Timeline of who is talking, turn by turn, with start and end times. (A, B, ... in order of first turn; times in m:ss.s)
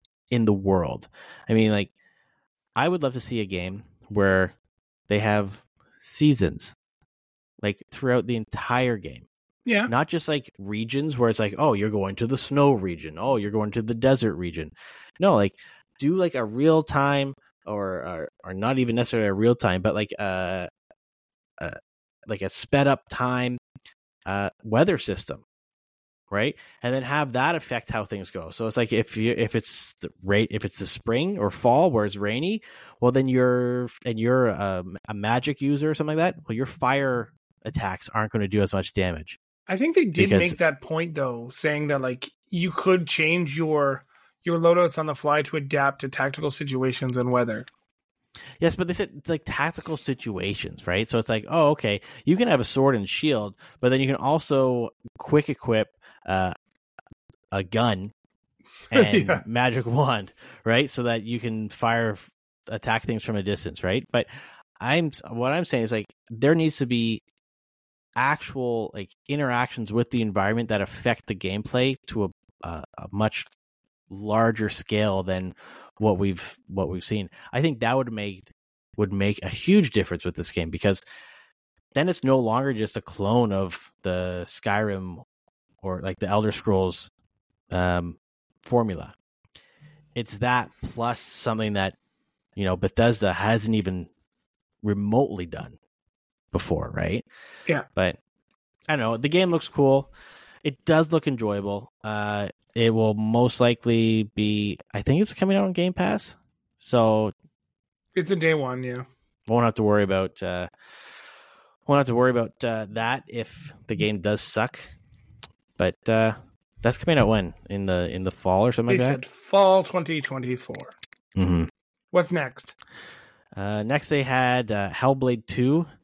0:00.3-0:01.9 A
0:02.8-0:04.5 A
0:05.1-0:06.7 A
0:07.6-0:09.2 A
0:09.6-0:09.9 B
0:09.9-0:20.7 A
0:21.6-0:23.6 A
0:24.3-0:25.4 A
0:26.3-0:39.4 A
0:39.7-0:47.7 B
0:40.2-0:40.6 A
0:48.6-0:56.6 A
0:57.5-0:58.1 A
0:58.9-1:04.3 A
0:58.9-0:59.4 B
1:04.8-1:07.2 A
1:08.2-1:13.5 A
1:14.1-1:21.0 A
1:21.9-1:25.2 A
1:25.8-1:27.1 A
1:27.7-1:29.1 A
1:30.2-1:31.9 A
1:32.6-1:34.1 A
1:34.8-1:35.8 A
1:36.5-1:37.2 A
1:38.9-1:40.1 A
1:40.6-1:47.3 A
1:48.1-1:49.1 B
1:49.5-1:50.7 A
1:51.9-1:54.9 A
1:55.8-1:59.2 A
1:58.9-2:00.9 B
2:01.4-2:01.7 A
2:02.1-2:02.7 B
2:03.6-2:05.9 A